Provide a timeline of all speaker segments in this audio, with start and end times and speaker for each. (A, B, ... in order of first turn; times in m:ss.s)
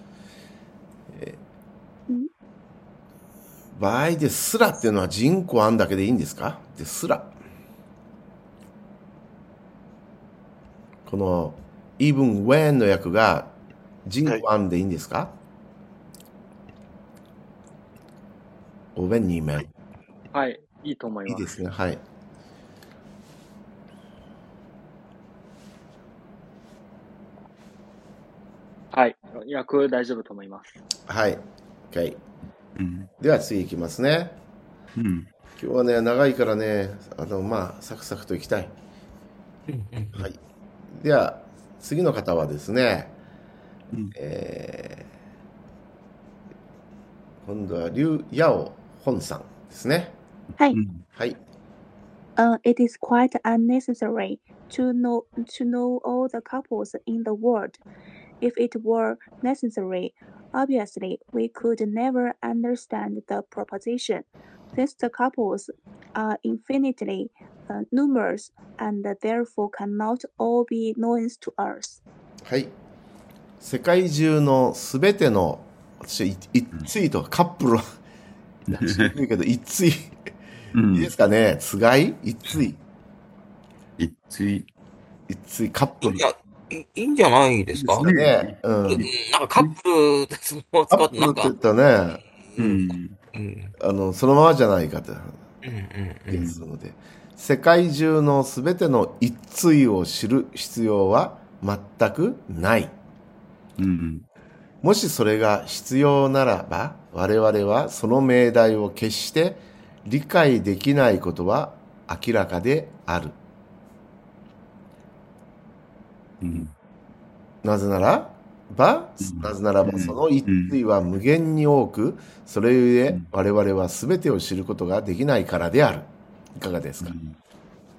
0:01.1-0:01.4 A
0:03.8-0:07.4 A
0:11.0-0:15.4 A
0:19.0-0:19.7 A
0:20.3-0:21.5 B
0:21.3-0:22.0 A
0:28.9-0:30.7 B
0:31.1-0:32.2 A
0:32.8-0:33.1 C
0:33.2-0:34.4 A
0:35.0-0:35.3 C
0:35.6-0:38.7 A
0:39.7-0:40.2 D
0:40.1-0:40.4 A
0:40.9-0:43.2 A
0:44.1-0:45.1 A
0:47.4-0:50.2 A
0:50.7-0:51.0 C
0:52.4-0:57.8 E
0:58.4-1:12.0 E
1:12.5-1:12.7 A
1:13.6-1:17.8 A
1:18.7-1:20.2 A
1:18.7-1:19.1 C
1:20.7-1:21.1 C
1:20.9-1:22.8 A
1:24.0-1:24.7 C
1:25.3-1:26.2 A
1:26.0-1:28.1 D
1:27.8-1:29.8 C
1:28.0-1:29.0 A
1:28.9-1:31.5 D
1:30.9-1:32.2 A
1:32.5-1:33.7 D
1:32.6-1:33.2 C
1:33.8-1:35.4 A
1:35.6-1:36.5 D
1:36.3-1:43.0 A
1:36.4-1:36.6 C
1:43.8-1:44.3 C
1:44.8-1:53.4 A
1:56.4-1:56.7 C
1:57.6-2:07.1 A
1:59.2-2:00.8 C
2:07.0-2:07.4 C